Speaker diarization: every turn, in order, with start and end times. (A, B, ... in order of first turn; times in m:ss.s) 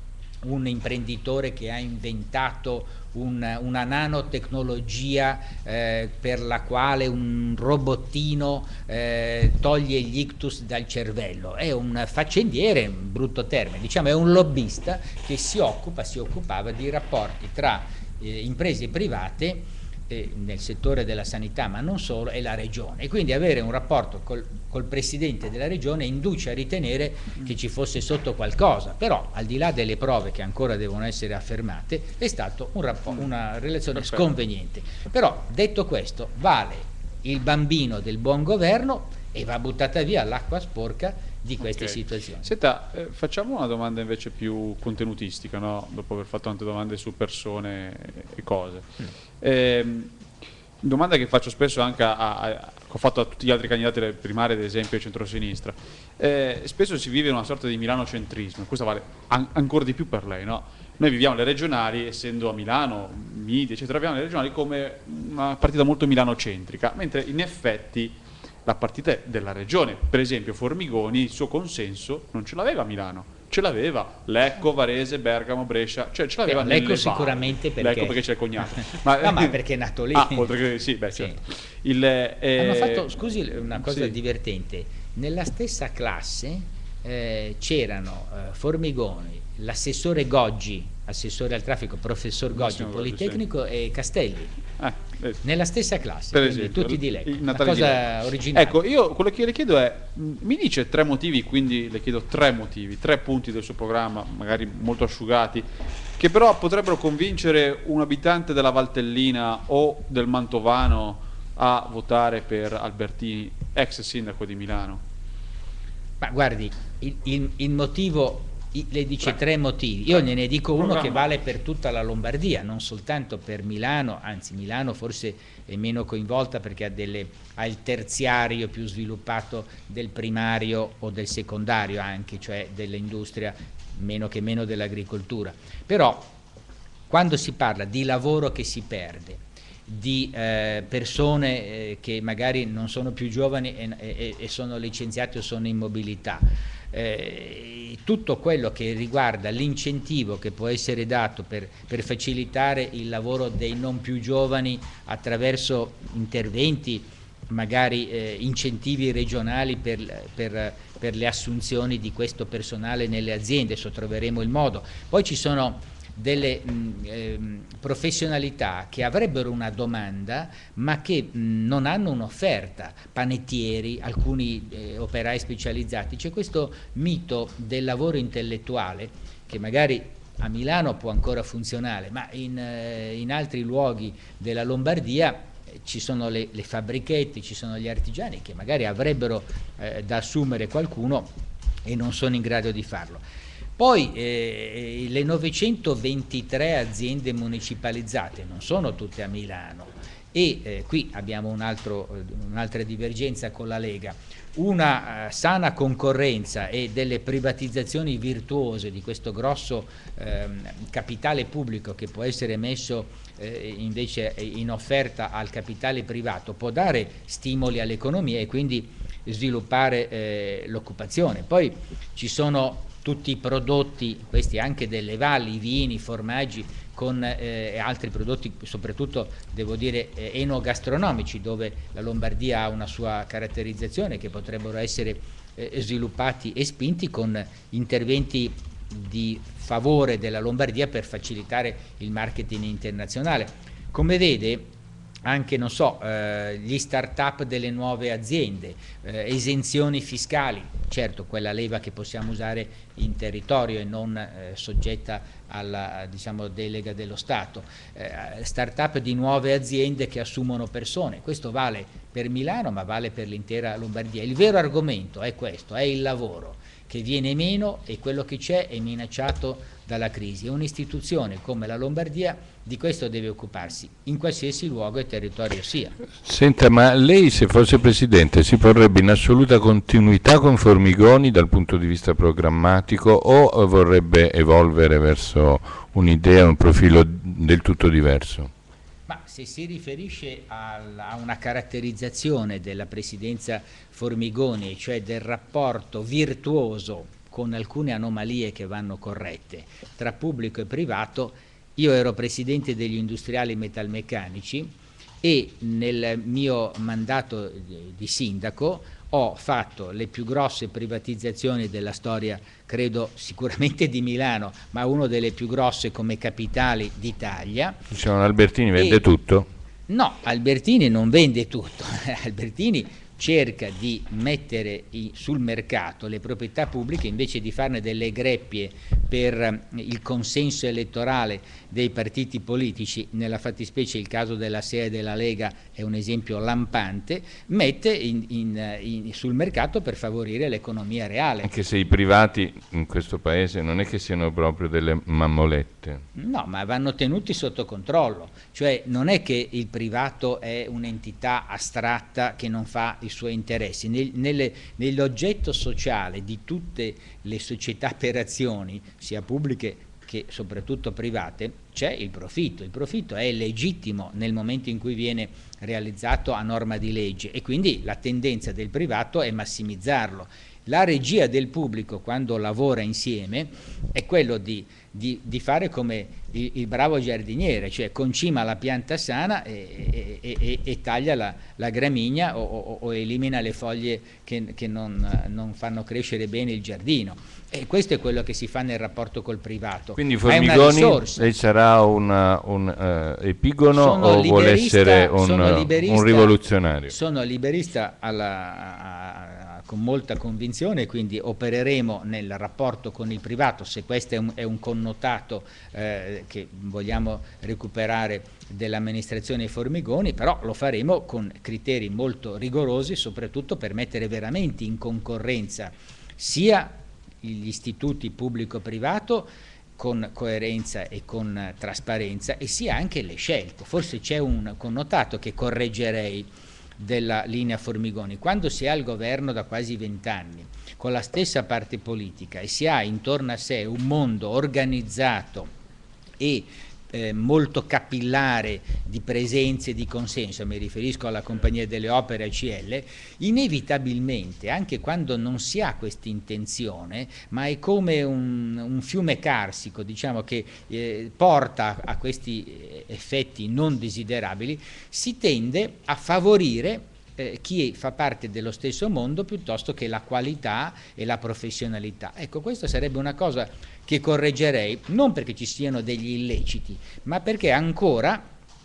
0:00.4-0:42.5 A
0:34.0-0:34.2 B
0:41.6-0:50.1 B
0:50.8-1:19.6 B
1:16.4-1:18.2 A
1:18.7-1:20.5 A
1:20.1-1:23.1 B
1:22.6-1:34.5 A
1:23.9-1:24.1 B
1:32.5-1:33.4 B
1:34.8-1:35.4 B
1:35.4-1:38.8 A
1:36.3-1:45.7 B
1:46.2-1:55.0 B
1:56.2-2:16.3 A
2:00.8-2:01.2 B
2:17.1-3:11.3 A
3:11.8-3:13.2 A
3:13.8-4:04.7 A
4:05.2-4:35.9 A
4:36.2-4:48.5 C
4:49.1-5:17.8 A
5:17.9-5:19.5 C
5:18.7-5:19.1 A
5:19.9-5:41.5 A
5:41.4-5:46.0 C
5:46.2-6:31.3 A
6:30.0-6:36.9 C
6:33.7-7:06.3 A
7:06.8-7:15.5 A
7:16.2-7:48.3 A